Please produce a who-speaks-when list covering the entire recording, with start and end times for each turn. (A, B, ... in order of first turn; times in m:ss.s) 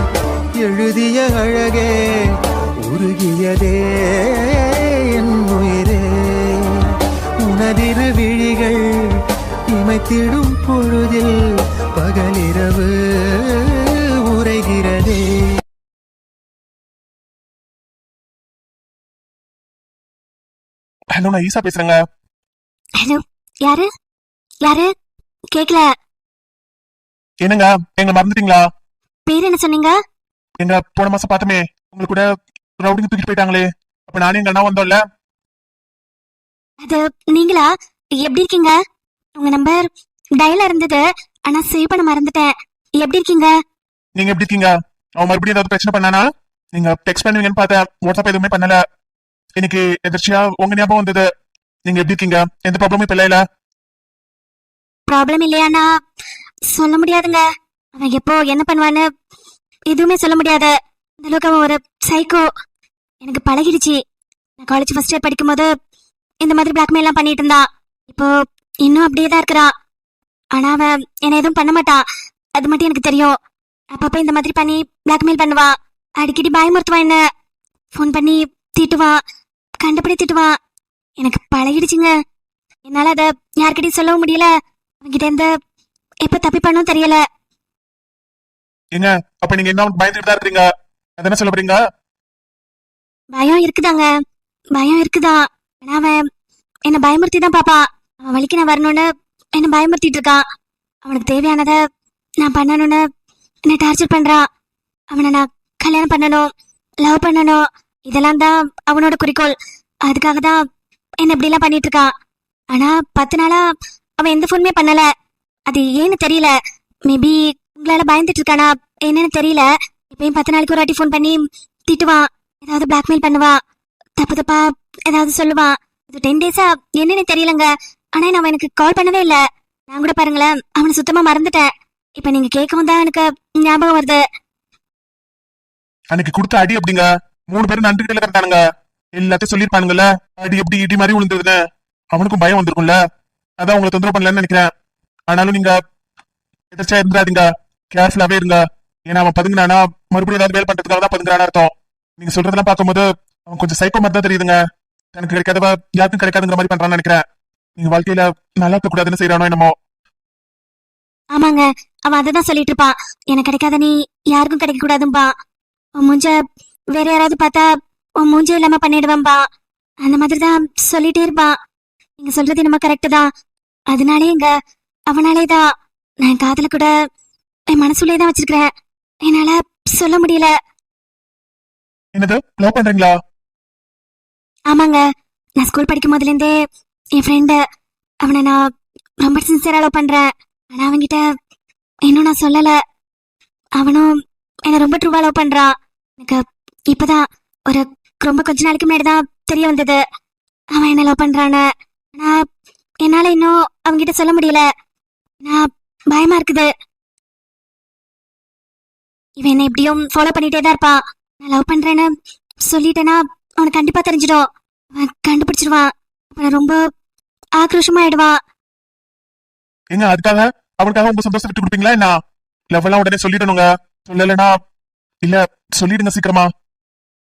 0:00.6-0:01.9 A
0:02.9-0:06.6 A
0:07.4-0:08.9 A
0:09.7-0:11.3 A
0:12.0-0:15.3 A
0:21.1-0:22.0 B
0:23.0-0:23.9 C
0:25.5-0:25.9 C
0:27.4-0:28.7 B
0:29.3-0:30.0 C
0:30.6-0:32.3 B
0:32.8-0:35.0 B
0:36.8-0:37.7 C
0:38.2-0:38.8 C
0:39.4-0:43.6 C
0:44.2-0:48.8 B
0:49.6-0:51.3 B
0:51.9-0:53.4 B
0:55.1-0:55.9 C
0:56.7-0:57.4 C
0:58.0-0:59.0 C
0:59.9-1:02.4 C
1:03.2-1:04.0 C
1:04.6-1:05.7 C
1:06.4-1:08.3 C
1:08.8-1:09.7 C
1:10.6-1:12.0 C
1:12.6-1:13.3 C
1:13.9-1:17.2 C
1:17.9-1:19.2 C
1:19.8-1:20.5 C
1:21.2-1:22.1 C
1:22.9-1:24.5 C
1:25.0-1:25.5 C
1:26.2-1:27.2 C
1:28.9-1:31.8 B
1:33.3-1:34.1 C
1:34.8-1:36.2 C
1:36.9-1:40.4 C
1:41.1-1:41.8 C
1:42.4-1:43.0 C
1:43.7-1:44.4 C
1:45.1-1:46.4 C
1:47.0-1:49.5 C
1:50.1-1:50.6 C
1:51.2-1:52.1 C
1:52.7-1:53.6 C
1:54.2-1:55.1 C
1:55.7-1:56.5 C
1:57.1-2:03.6 C
2:04.2-2:14.2 C
2:16.1-2:18.6 B
2:19.2-2:21.6 B
2:22.1-2:23.0 B
2:23.6-2:24.7 B
2:25.3-2:25.8 B
2:26.7-2:34.6 B
2:35.1-2:37.2 B
2:37.8-2:39.7 B
2:41.4-2:45.3 C
2:46.0-2:46.4 C
2:46.9-2:47.7 C
2:48.2-2:49.4 C
2:50.0-2:51.5 C
2:52.2-2:53.3 C
2:53.9-2:54.5 C
2:55.1-2:55.6 C
2:56.2-2:56.9 C
2:57.7-2:58.7 C
2:59.2-3:00.5 C
3:02.2-3:03.2 B
3:04.7-3:05.0 C
3:05.6-3:06.6 C
3:07.2-3:07.6 C
3:08.2-3:08.7 C
3:09.2-3:11.2 C
3:12.1-3:12.8 C
3:13.8-3:14.1 C
3:14.7-3:20.0 C
3:20.8-3:21.6 C
3:22.2-3:22.4 C
3:23.0-3:24.6 C
3:25.4-3:26.7 C
3:29.4-3:32.1 C
3:32.7-3:36.8 C
3:37.6-3:38.4 C
3:39.9-3:42.1 B
3:42.7-3:44.6 B
3:45.2-3:46.5 B